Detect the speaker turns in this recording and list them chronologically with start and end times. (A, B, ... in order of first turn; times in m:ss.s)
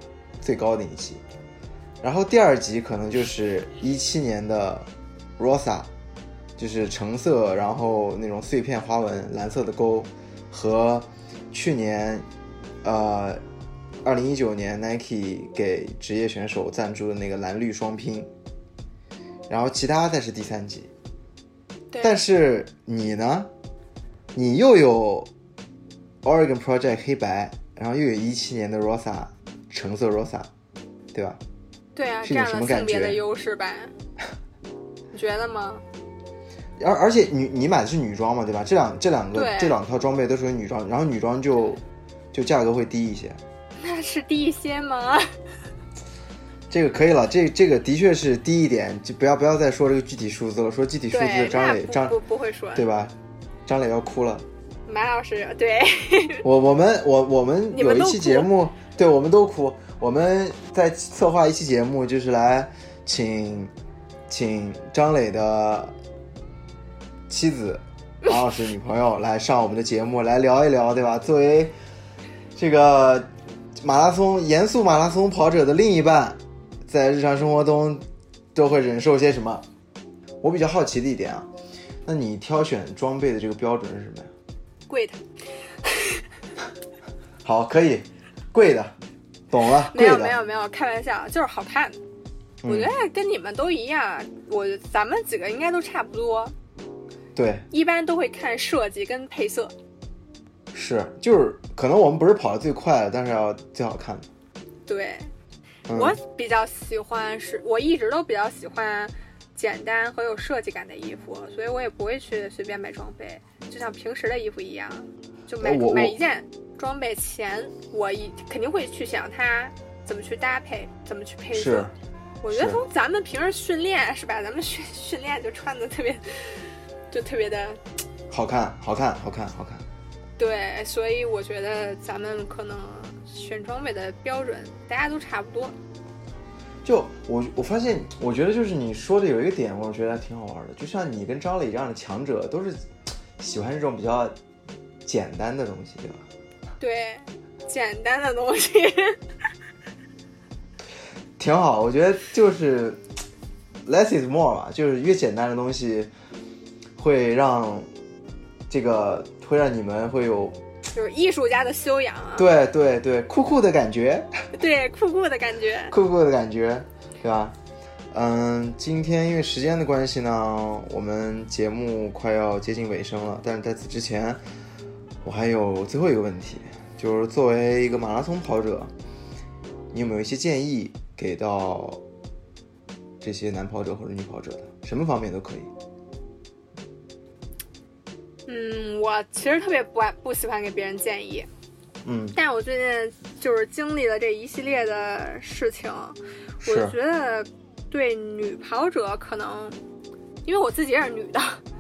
0:00.4-0:01.2 A
0:02.0-0:05.9 A
0:06.6-0:12.3 A
0:12.8-0:13.4 A
0:14.0-0:18.3 A
0:19.5-0:20.9 A
0:21.9-0:22.2 B
0:22.0-0:23.5 A
0:24.3-0:25.3 A
0:26.2-0:30.5 A
0:31.1-0:31.4 A
0:32.0-0:34.0 B
0:32.2-0:33.2 A
0:35.1-0:35.8 B
0:36.8-0:43.4 A
0:39.3-0:39.8 B
0:43.8-0:45.3 B
0:46.7-0:52.2 A
0:51.1-0:52.9 B
0:52.8-0:53.2 A
0:53.7-0:54.4 A
0:54.9-0:56.4 B
0:56.4-1:03.7 A
0:57.7-0:58.5 B
1:04.3-1:06.0 A
1:07.3-1:11.8 A
1:12.6-1:19.6 A
1:20.4-1:21.5 A
1:22.0-1:24.3 A
1:24.9-1:25.2 B
1:25.8-1:26.2 B
1:27.4-1:29.0 A
1:29.5-1:30.4 A
1:29.8-1:32.0 B
1:32.6-1:32.9 A
1:32.7-1:36.5 B
1:37.4-1:37.7 A
1:37.7-1:39.8 B
1:40.7-1:44.3 A
1:44.9-1:45.3 B
1:45.9-1:46.2 A
1:45.9-2:07.8 B
1:55.6-1:56.2 A
2:01.5-2:01.9 A
2:02.5-2:02.8 A
2:08.3-2:09.9 A
2:10.4-2:15.8 B
2:16.8-2:22.8 A
2:23.4-2:24.3 A
2:25.0-2:26.2 A
2:26.8-2:29.2 B
2:31.4-2:33.0 A
2:33.9-2:36.1 A
2:37.0-2:37.9 A
2:38.7-2:40.6 A
2:40.9-2:42.5 B
2:42.4-2:44.3 A
2:44.5-2:46.0 B
2:45.9-2:47.6 A
2:48.1-2:54.4 A
2:55.2-2:58.9 A
2:59.9-3:02.0 A
3:03.2-3:05.7 A
3:08.5-3:11.5 B
3:12.0-3:12.4 A
3:12.4-3:19.8 B
3:16.6-3:17.0 A
3:20.4-3:21.6 B